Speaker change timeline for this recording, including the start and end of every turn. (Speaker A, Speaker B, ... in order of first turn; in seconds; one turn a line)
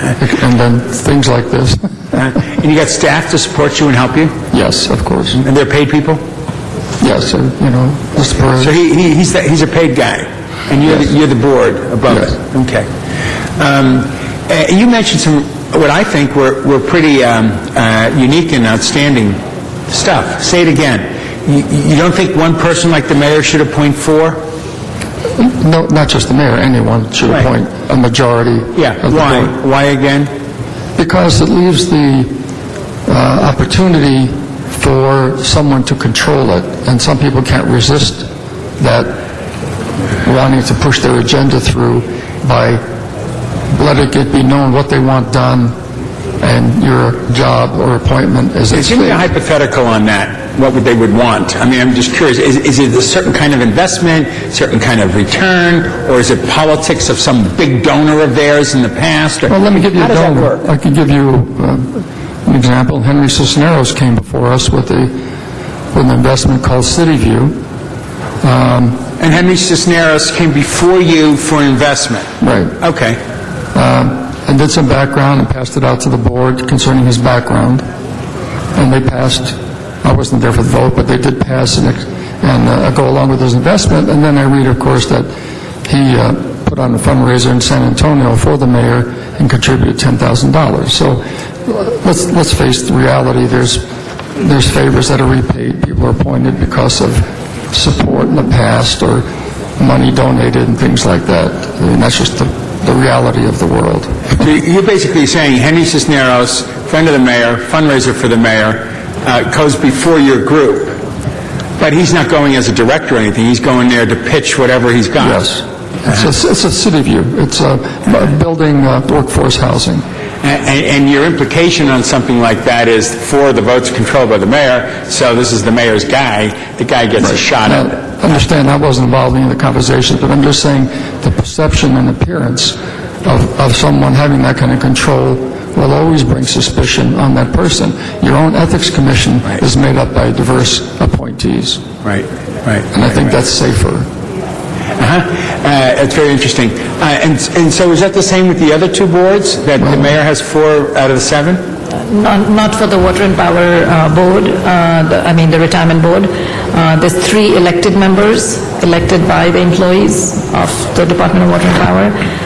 Speaker A: 0.2-1.8
Speaker B: 2.1-4.4
Speaker A: 4.5-5.4
Speaker B: 5.4-6.2
Speaker A: 7.0-8.7
Speaker B: 8.6-12.9
Speaker A: 12.1-12.4
Speaker B: 13.6-24.5
Speaker A: 25.4-29.5
Speaker B: 28.7-30.3
Speaker A: 31.0-32.3
Speaker A: 33.1-38.3
Speaker A: 38.8-39.1
Speaker A: 40.2-42.8
Speaker A: 43.7-45.7
Speaker A: 46.4-49.3
Speaker B: 48.7-60.6
Speaker A: 59.5-65.2
Speaker A: 65.9-67.5
Speaker A: 68.4-69.1
Speaker B: 69.2-73.2
Speaker A: 72.4-72.7
Speaker A: 73.7-77.8
Speaker A: 78.7-85.3
Speaker A: 85.8-93.8
Speaker A: 94.4-99.3
Speaker A: 99.8-104.2
Speaker B: 104.4-111.0
Speaker B: 111.8-115.5
Speaker A: 115.2-120.0
Speaker B: 120.4-128.0
Speaker A: 127.5-141.8
Speaker B: 142.0-142.9
Speaker A: 142.9-144.1
Speaker B: 145.0-151.7
Speaker A: 149.8-150.1
Speaker C: 152.1-162.1